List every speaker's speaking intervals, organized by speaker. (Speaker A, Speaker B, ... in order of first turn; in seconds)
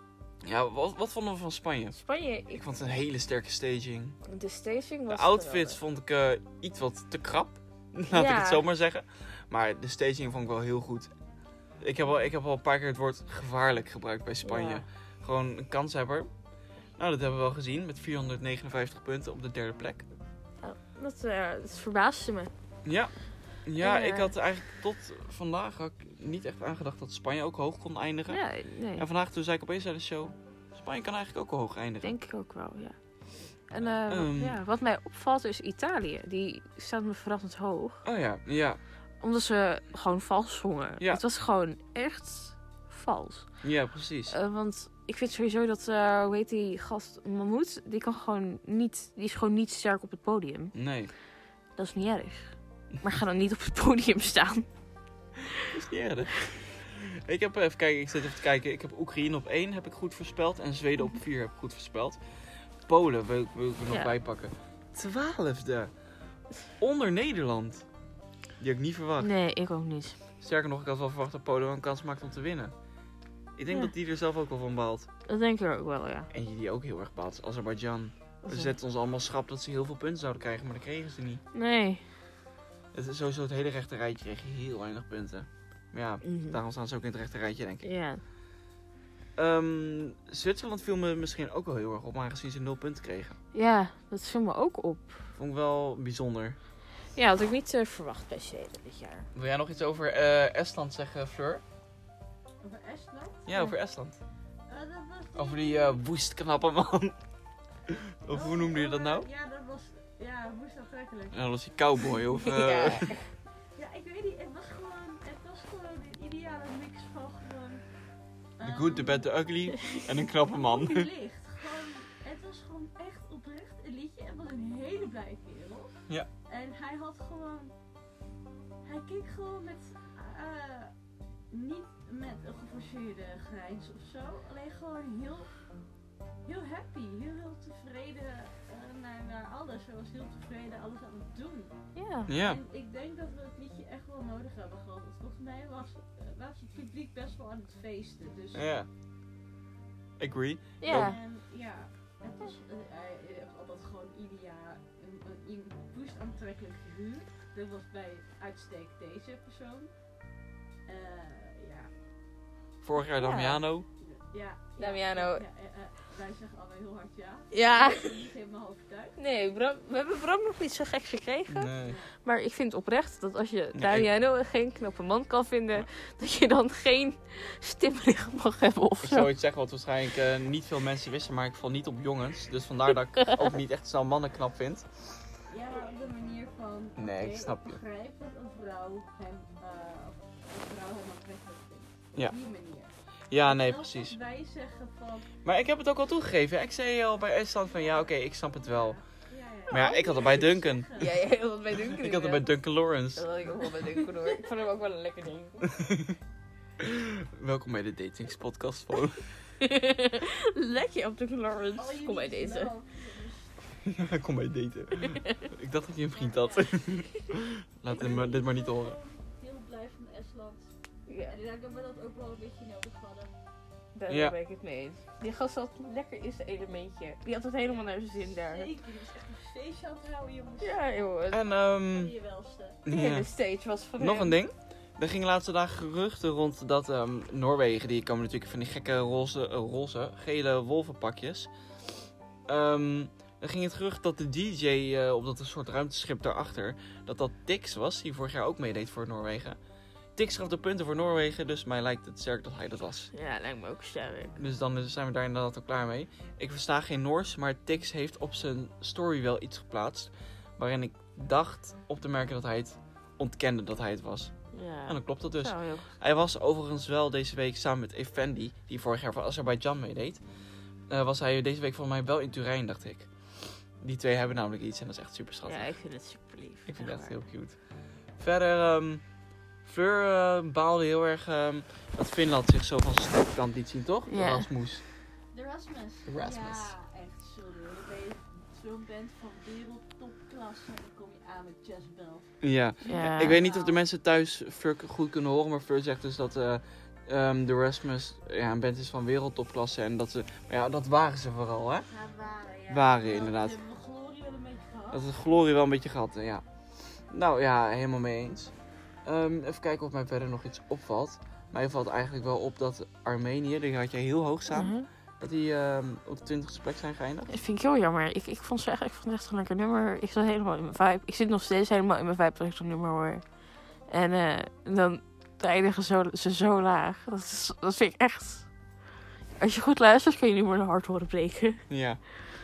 Speaker A: 0.4-2.0, 2.5-4.2, 5.1-11.1, 11.8-16.3, 17.0-20.1, 22.9-23.1, 23.7-28.4, 29.0-32.1, 33.8-34.6, 38.0-38.8, 43.6-44.3, 50.7-51.1, 55.7-62.2, 62.9-65.9, 66.8-67.9, 68.6-69.3, 70.4-72.7, 73.6-75.1, 76.3-81.4, 82.9-87.9, 89.4-93.4, 95.3-96.6, 99.3-101.6, 103.5-104.2, 105.4-107.2, 107.9-109.3, 111.3-113.1, 118.6-121.1, 142.3-142.6, 148.5-148.9, 150.2-151.2, 162.8-163.9, 171.5-172.0, 173.7-174.1, 179.0-185.1, 187.0-187.8, 193.3-194.2, 195.4-199.0, 199.7-200.9, 201.9-203.2, 205.8-206.2, 206.8-209.2, 213.8-219.0, 224.1-224.4, 231.3-232.1, 232.8-233.3, 234.0-241.5, 242.5-249.6, 250.2-253.1, 254.4-264.3, 264.9-270.2, 270.9-273.1, 273.8-275.7, 276.7-277.6, 278.2-279.0, 279.6-284.9, 286.1-286.7, 292.4-301.9, 302.7-303.6, 304.9-306.4, 307.1-308.5, 309.1-317.3, 331.7-332.0
Speaker B: 1.9-2.6, 4.3-5.8, 8.1-8.6, 14.4-14.8, 20.6-22.5, 23.8-24.3, 28.3-29.1, 32.0-33.0, 33.7-38.0, 39.2-43.5, 44.3-50.7, 51.8-54.7, 63.9-64.2, 69.2-70.2, 75.3-76.3, 78.4-78.7, 81.5-82.1, 86.2-86.6, 87.8-88.2, 93.5-95.2, 97.2-99.3, 112.4-113.3, 141.9-142.3, 150.8-151.2, 163.1-163.6, 164.8-165.4, 167.5-168.2, 169.2-179.3, 201.0-202.5, 203.2-205.7, 209.6-212.7, 221.1-221.4, 223.9-228.7, 230.6-231.4, 232.9-234.4, 253.1-254.4, 264.5-265.9, 275.4-277.2, 284.1-284.5, 292.9-293.4, 314.5-314.9, 317.3-323.2, 323.9-328.5, 329.4-331.6
Speaker C: 102.6-103.5, 104.7-106.0, 108.3-111.5, 113.8-117.8, 118.6-125.9, 126.5-127.8, 128.8-130.9, 131.5-135.5, 136.4-141.8, 142.3-148.7, 150.9-159.9, 160.9-161.9, 164.0-169.2, 171.8-172.1, 185.5-195.3, 197.7-201.1, 203.6-204.5, 211.8-213.6, 216.1-217.3, 217.9-223.3, 227.7-230.8, 231.7-232.8, 285.3-293.8, 301.9-305.1